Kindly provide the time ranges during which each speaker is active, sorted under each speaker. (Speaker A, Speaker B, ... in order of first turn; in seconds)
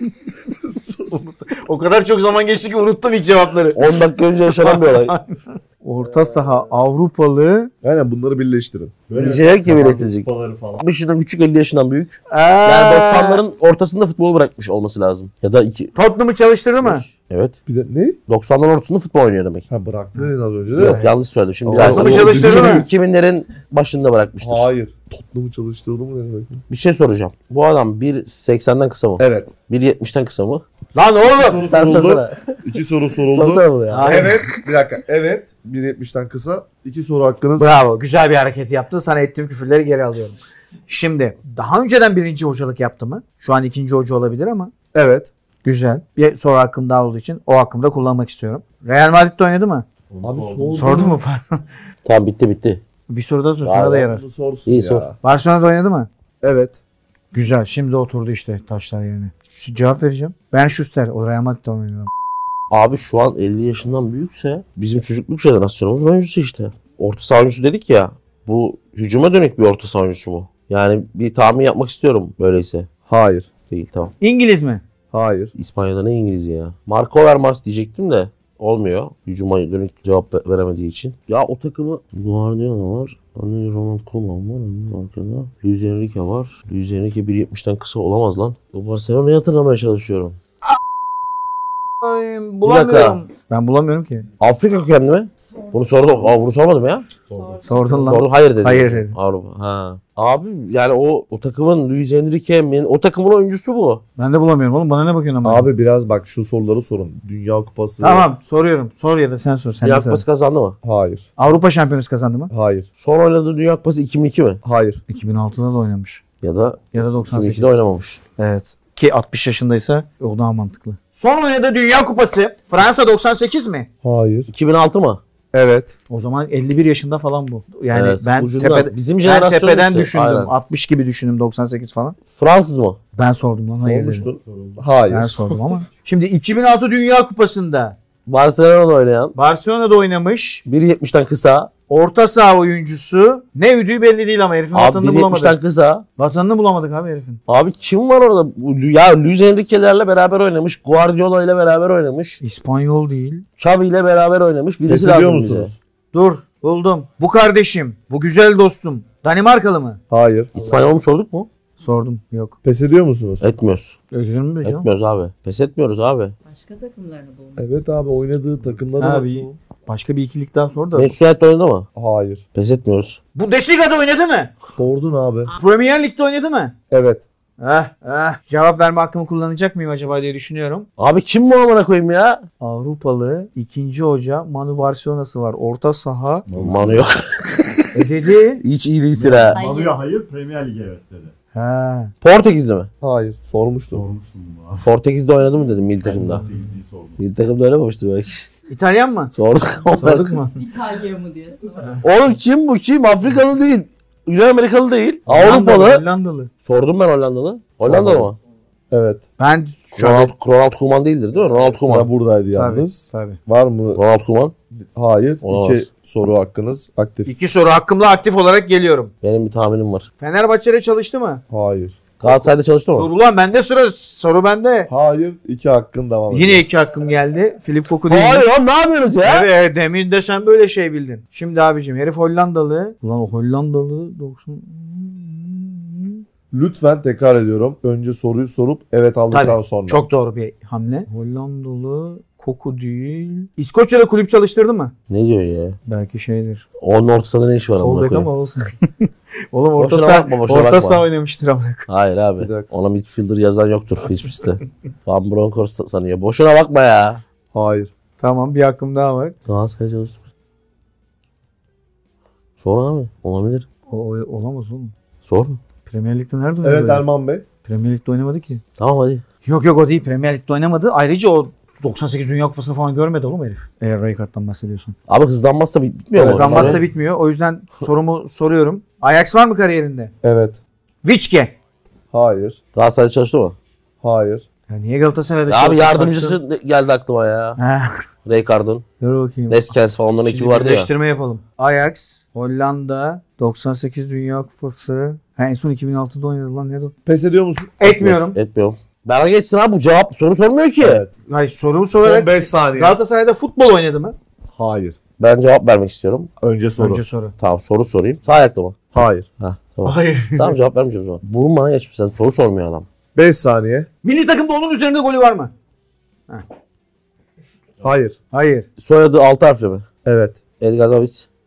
Speaker A: 0.6-1.2, 7.8-9.0, 17.6-18.2, 19.7-21.0, 21.6-22.9, 24.4-26.6, 29.2-29.5, 31.3-37.7, 44.9-45.3, 50.2-51.1, 54.1-55.1, 56.4-56.8, 73.1-73.5, 75.1-75.5, 105.4-108.3, 110.8-111.2, 112.5-112.9, 114.6-115.0, 124.0-124.5, 125.5-125.9, 133.8-135.5, 154.9-155.7, 160.1-160.5, 162.6-163.4, 167.6-169.6, 171.9-172.4, 174.7-175.5, 176.9-177.2, 193.0-194.0, 207.8-208.3, 208.9-209.2, 211.7-212.9, 213.5-214.0, 214.7-217.3, 221.5-222.2, 224.9-226.6, 236.5-240.1, 252.4-252.7, 257.5-257.9, 266.6-267.4, 276.1-276.8, 280.2-280.6, 282.1-282.6, 284.0-284.4, 297.1-297.8, 300.8-301.1, 302.0-303.0, 304.6-305.0, 306.4-307.0, 308.9-309.3, 313.1-313.9, 317.8-318.1, 320.0-320.4
Speaker B: 1.1-7.7, 12.3-13.4, 15.9-17.1, 20.2-21.1, 21.8-22.9, 30.9-31.7, 33.9-34.5, 37.6-40.4, 40.9-44.7, 45.6-49.9, 50.8-51.6, 53.1-54.2, 55.2-56.1, 57.3-62.1, 74.2-74.8, 92.0-94.2, 97.6-99.2, 104.2-105.7, 108.0-110.2, 111.4-112.5, 115.1-116.2, 116.9-117.8, 118.4-123.9, 126.1-132.2, 133.2-134.3, 135.1-137.9, 139.3-140.6, 141.9-145.6, 146.2-147.4, 152.4-153.4, 156.1-160.0, 160.6-160.9, 161.8-162.6, 164.1-164.9, 169.0-171.1, 173.3-174.5, 175.6-176.7, 177.6-180.9, 182.6-186.4, 187.9-188.6, 191.5-192.1, 198.7-199.3, 199.9-200.6, 205.3-206.5, 209.4-210.3, 212.5-213.4, 217.2-219.1, 220.2-221.4, 222.9-224.9, 226.3-228.5, 229.2-236.2, 239.3-244.9, 245.9-246.6, 247.8-251.9, 258.2-259.3, 263.9-264.9, 265.9-267.1, 267.6-268.6, 269.4-274.9, 276.2-280.1, 281.0-281.5, 284.7-286.4, 287.6-288.0, 289.0-289.7, 290.2-296.9, 297.8-298.4, 301.3-304.1, 306.8-307.3, 309.8-310.6, 314.0-315.5, 318.3-318.6
Speaker C: 3.7-5.2, 9.2-15.9, 16.8-17.6, 18.3-19.7, 20.8-24.7, 26.7-30.6, 31.6-34.4, 52.0-52.8, 53.6-54.1, 54.6-55.0, 62.7-72.9, 73.7-74.1, 75.5-90.4, 92.6-93.2, 94.4-97.1, 98.0-104.0, 109.8-110.8, 113.0-114.6, 116.4-118.2, 124.5-125.2, 127.9-130.5, 132.3-133.0, 138.2-139.3, 140.6-141.7, 144.7-146.0, 147.5-152.4, 153.6-155.7, 160.5-161.5, 163.4-163.9, 164.6-166.3, 170.9-171.9, 172.5-173.2, 181.0-182.5, 186.6-188.0, 188.6-189.6, 192.2-192.9, 194.8-196.4, 197.2-198.5, 199.3-200.4, 202.0-206.0, 206.6-208.4, 209.9-212.1, 213.9-214.5, 215.4-215.8, 219.2-220.1, 222.2-223.1, 228.1-229.5, 245.1-245.8, 246.8-248.3, 249.8-251.1, 251.9-257.2, 259.5-260.2, 262.6-263.6, 265.2-265.6, 268.8-269.2, 275.1-276.8, 282.7-283.6, 285.5-287.6, 288.2-288.8, 289.5-290.9, 297.9-301.0, 305.2-306.3, 307.4-308.8, 309.4-312.9, 318.8-319.9, 320.6-321.3
Speaker D: 9.1-10.9, 50.1-51.0, 97.3-97.8, 134.3-134.8, 186.5-187.1, 189.2-191.3, 193.9-194.9, 196.0-197.2
Speaker E: 95.6-96.1, 97.3-98.1, 166.4-167.6, 189.5-190.0, 200.5-202.0